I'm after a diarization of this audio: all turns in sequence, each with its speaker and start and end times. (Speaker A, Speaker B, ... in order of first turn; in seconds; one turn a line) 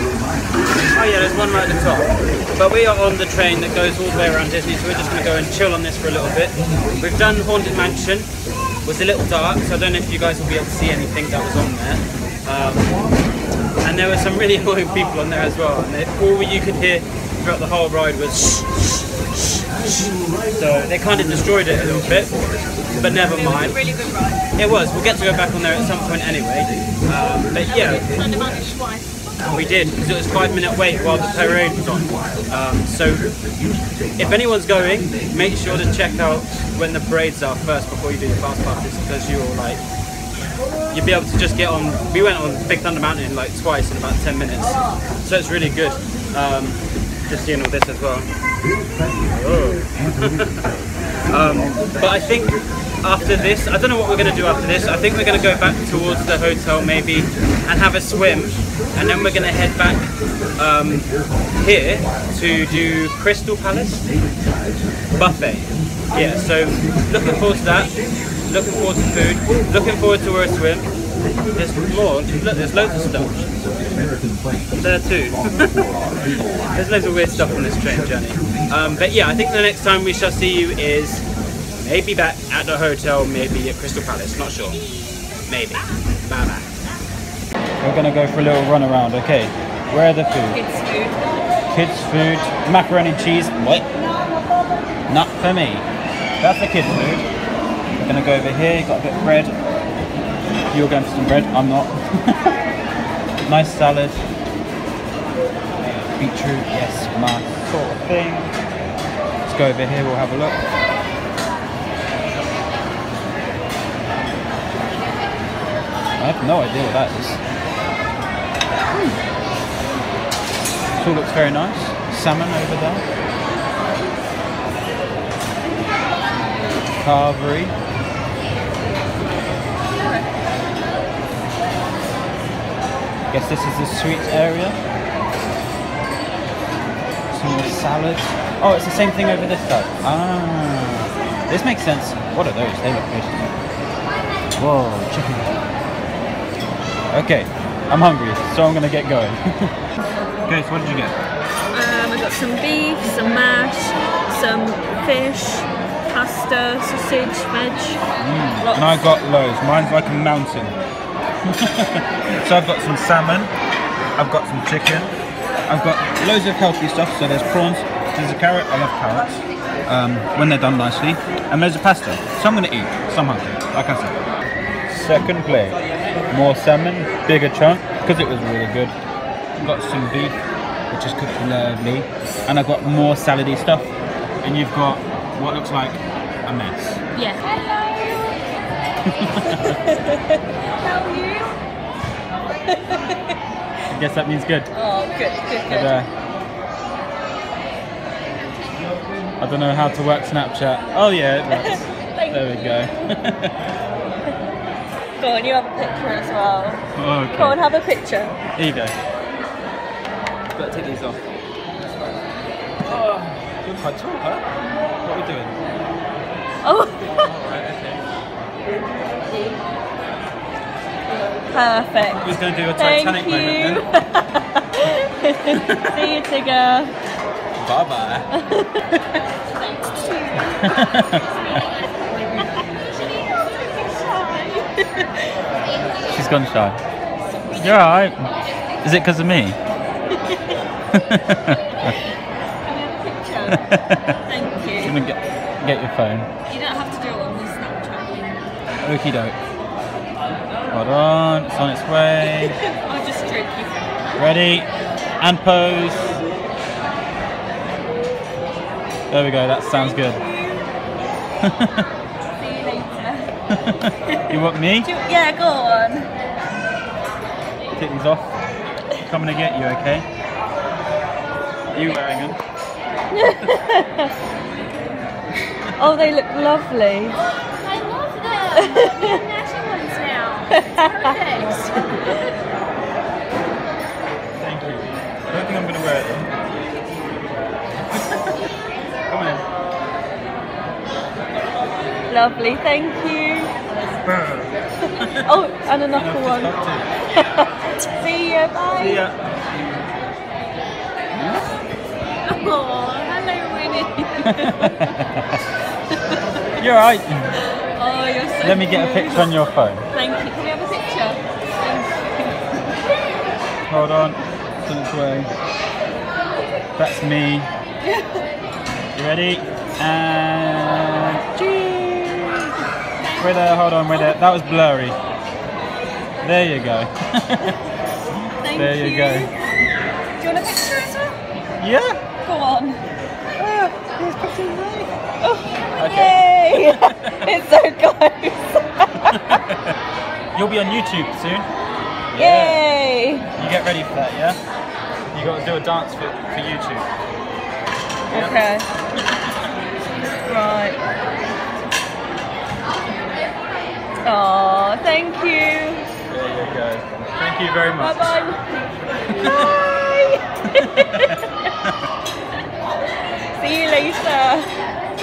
Speaker A: 0.9-8.3
Speaker A: 8.8-12.9
Speaker A: 13.8-18.8
Speaker A: 20.5-22.4
Speaker A: 22.9-23.8
Speaker B: 23.2-24.5
Speaker A: 24.5-28.1
Speaker B: 27.7-29.4
Speaker A: 29.4-33.3
Speaker A: 34.2-39.8
Speaker A: 40.9-48.3
Speaker A: 49.3-50.6
Speaker A: 51.3-64.0
Speaker A: 65.1-70.9
Speaker A: 71.5-73.5
Speaker A: 74.7-76.0
Speaker A: 76.7-84.9
Speaker A: 85.4-86.8
Speaker A: 87.8-90.6
Speaker B: 90.5-91.4
Speaker A: 91.7-93.9
Speaker A: 95.1-95.9
Speaker A: 96.4-97.2
Speaker A: 98.0-99.5
Speaker A: 100.7-102.6
Speaker A: 103.4-104.2
Speaker A: 106.0-108.5
Speaker A: 109.5-110.6
Speaker A: 116.2-117.4
Speaker A: 118.9-119.2
Speaker A: 120.9-123.0
Speaker A: 127.0-127.7
Speaker B: 129.9-130.3
Speaker A: 133.3-134.8
Speaker A: 137.3-143.5
Speaker A: 144.6-145.6
Speaker A: 147.1-149.7
Speaker A: 150.4-151.2
Speaker B: 151.7-158.0
Speaker A: 158.2-160.8
Speaker B: 158.6-159.1
Speaker A: 161.4-163.5
Speaker A: 164.2-165.1
Speaker A: 165.7-174.2
Speaker A: 174.9-178.9
Speaker A: 179.6-180.4
Speaker A: 180.9-183.9
Speaker A: 184.4-187.0
Speaker B: 187.1-188.4
Speaker A: 189.1-189.8
Speaker B: 189.4-191.5
Speaker B: 192.7-193.3
Speaker A: 193.9-194.7
Speaker B: 194.7-196.0
Speaker A: 195.7-196.1
Speaker A: 199.4-203.6
Speaker B: 201.5-202.5
Speaker B: 205.2-208.4
Speaker A: 206.9-207.6
Speaker A: 208.6-208.9
Speaker A: 210.5-211.2
Speaker A: 212.9-214.4
Speaker A: 215.0-215.6
Speaker B: 216.6-217.3
Speaker A: 217.2-218.0
Speaker B: 221.5-226.9
Speaker A: 222.1-223.8
Speaker A: 225.5-226.1
Speaker A: 227.6-228.3
Speaker B: 228.3-231.8
Speaker A: 230.6-231.2
Speaker B: 232.4-235.3
Speaker A: 235.9-236.8
Speaker B: 237.2-237.8
Speaker A: 237.5-238.2
Speaker A: 238.8-239.6
Speaker B: 240.2-240.5
Speaker A: 240.9-241.9
Speaker B: 241.9-243.6
Speaker A: 243.5-244.2
Speaker B: 244.2-245.0
Speaker A: 244.8-246.3
Speaker B: 246.5-248.4
Speaker A: 248.8-249.4
Speaker A: 250.7-252.6
Speaker B: 252.4-254.2
Speaker A: 254.2-254.7
Speaker A: 255.2-256.2
Speaker A: 259.1-260.2
Speaker B: 259.6-260.8
Speaker A: 261.4-261.9
Speaker B: 262.4-263.3
Speaker A: 263.5-264.9
Speaker B: 263.9-266.1
Speaker A: 267.8-268.3
Speaker A: 269.0-270.1
Speaker A: 271.7-272.4
Speaker B: 273.1-274.1
Speaker B: 275.8-282.3
Speaker A: 284.4-286.3
Speaker A: 287.8-288.4
Speaker A: 289.1-289.5
Speaker B: 292.1-293.5
Speaker A: 294.0-295.3
Speaker B: 295.2-296.6
Speaker A: 295.9-296.9
Speaker B: 297.1-299.0
Speaker A: 298.7-299.3
Speaker A: 301.1-301.4
Speaker B: 302.2-305.0
Speaker A: 304.3-305.4
Speaker A: 306.6-307.3
Speaker B: 307.6-309.4
Speaker A: 308.4-309.9
Speaker B: 309.9-312.9
Speaker A: 313.7-315.3
Speaker A: 316.8-317.5
Speaker B: 317.8-318.2
Speaker A: 318.9-322.5
Speaker A: 323.2-325.0
Speaker A: 326.2-327.6
Speaker B: 328.4-329.3
Speaker A: 328.5-329.3
Speaker B: 330.2-331.2
Speaker A: 331.6-332.0
Speaker B: 332.2-332.8
Speaker A: 333.4-334.9
Speaker B: 335.2-339.3
Speaker A: 335.7-337.3
Speaker A: 339.1-339.7
Speaker A: 340.3-341.5
Speaker A: 342.1-342.6
Speaker B: 342.1-343.3
Speaker A: 343.4-344.4
Speaker A: 345.1-346.9
Speaker A: 348.1-348.4
Speaker B: 348.1-348.7
Speaker B: 350.2-350.8
Speaker B: 354.0-355.9
Speaker A: 356.1-358.2
Speaker B: 357.8-358.5
Speaker B: 359.1-361.5
Speaker A: 359.1-359.5
Speaker A: 360.5-361.7
Speaker B: 363.3-364.5